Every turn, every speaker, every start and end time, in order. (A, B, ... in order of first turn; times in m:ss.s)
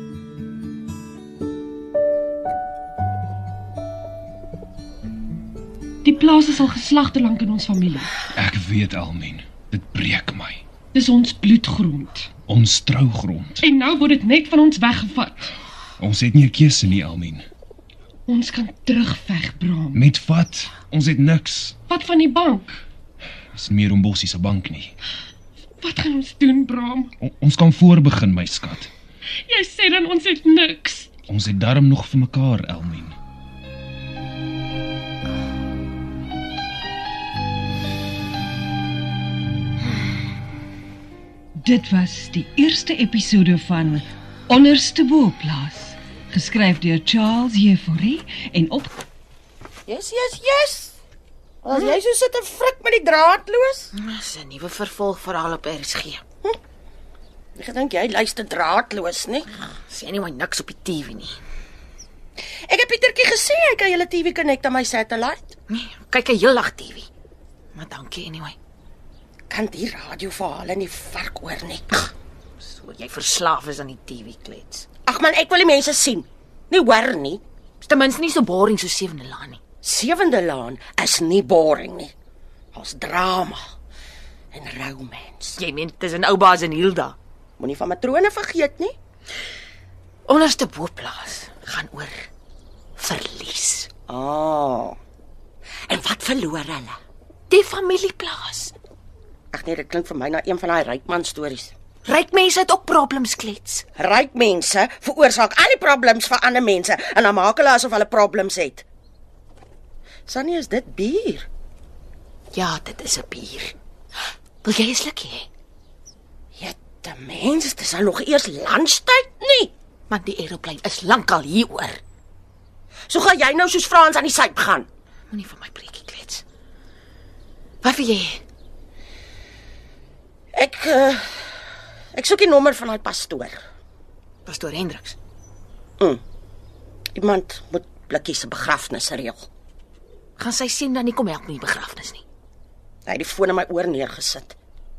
0:06.0-0:08.1 A
0:08.3-0:10.6 B
0:10.9-0:12.3 A
0:12.5-0:13.6 B
0:13.6-0:15.5 A
0:16.0-0:17.4 B
0:18.3-0:20.0 A
0:19.9-0:21.8 B
0:21.9-0:22.7 A
0:23.5-0:24.9 B
0:25.8-0:27.1 A
0:27.2-0:28.9 B
0:29.4-0:31.1 A
0:31.3-0:33.2 B
0:41.6-0:48.9 C
0:49.9-0:50.9 D
0:51.6-0:53.9 D
0:53.9-0:56.2 E
0:57.6-0:59.5 D
0:59.8-1:01.4 E
1:02.7-1:05.6 D
1:05.7-1:07.1 E
1:07.7-1:08.6 E
1:09.5-1:12.1 D
1:12.6-1:14.8 E
1:15.0-1:17.4 D
1:17.8-1:19.6 E
1:19.8-1:22.1 D
1:22.7-1:23.6 D
1:24.5-1:25.6 D
1:25.6-1:27.2 E
1:27.6-1:28.9 D
1:30.2-1:32.3 E
1:33.0-1:33.9 E
1:34.1-1:35.0 D
1:35.9-1:37.0 D
1:37.5-1:38.7 E
1:39.5-1:41.7 D
1:42.0-1:43.8 E
1:44.0-1:48.8 D
1:50.2-1:51.5 D
1:52.5-1:53.7 E
1:54.6-1:55.5 E
1:56.5-1:59.7 D
2:00.1-2:02.0 E
2:03.1-2:04.9 D
2:05.3-2:06.4 E
2:07.8-2:08.4 E
2:10.5-2:11.4 D
2:12.1-2:13.6 D
2:14.4-2:15.2 E
2:17.1-2:19.5 D
2:20.4-2:22.2 E
2:23.0-2:24.6 D